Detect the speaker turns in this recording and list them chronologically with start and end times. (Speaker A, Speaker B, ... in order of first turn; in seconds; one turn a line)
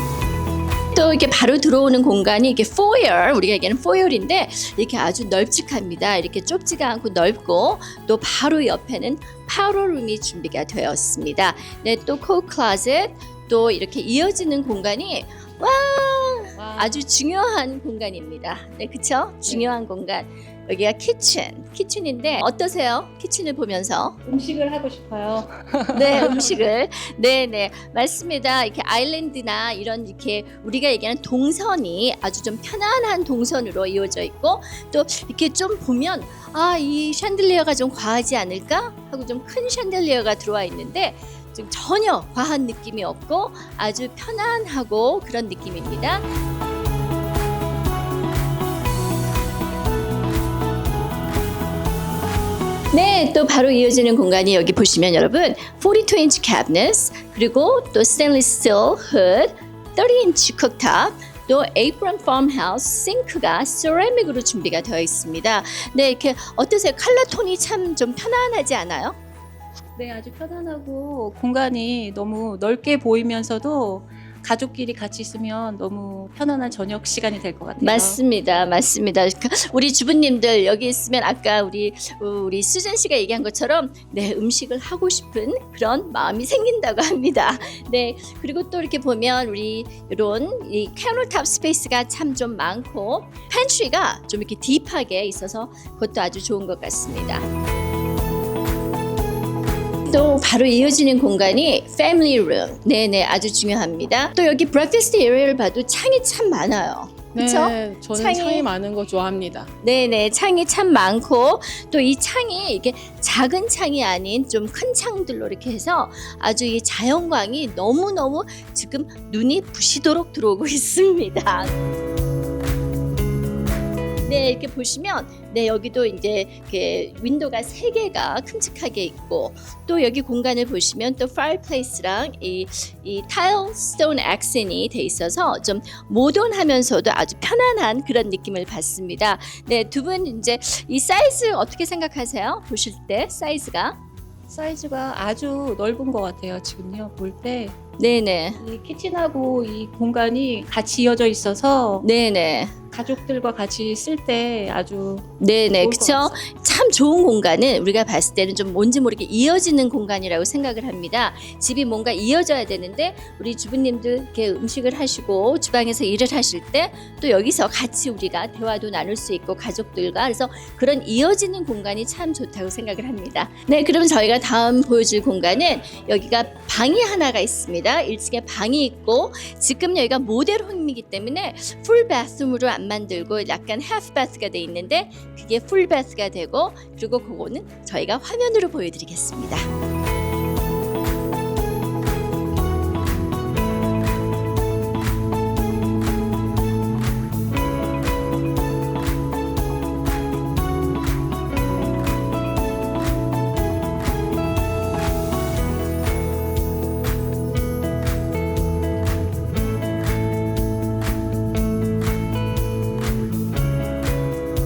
Speaker A: 0.9-24.2
Speaker B: 16.6-17.0
Speaker B: 19.5-19.7
Speaker C: 24.2-26.5
Speaker A: 25.9-46.2
Speaker A: 52.9-69.2
Speaker C: 70.0-78.2
Speaker A: 77.8-97.4
Speaker A: 100.1-108.7
Speaker B: 107.3-109.7
Speaker A: 109.8-121.7
Speaker A: 124.2-144.0
Speaker C: 144.5-147.8
Speaker A: 148.0-148.6
Speaker C: 148.6-152.1
Speaker A: 152.0-152.8
Speaker C: 152.9-155.3
Speaker A: 155.4-189.7
Speaker C: 155.8-156.4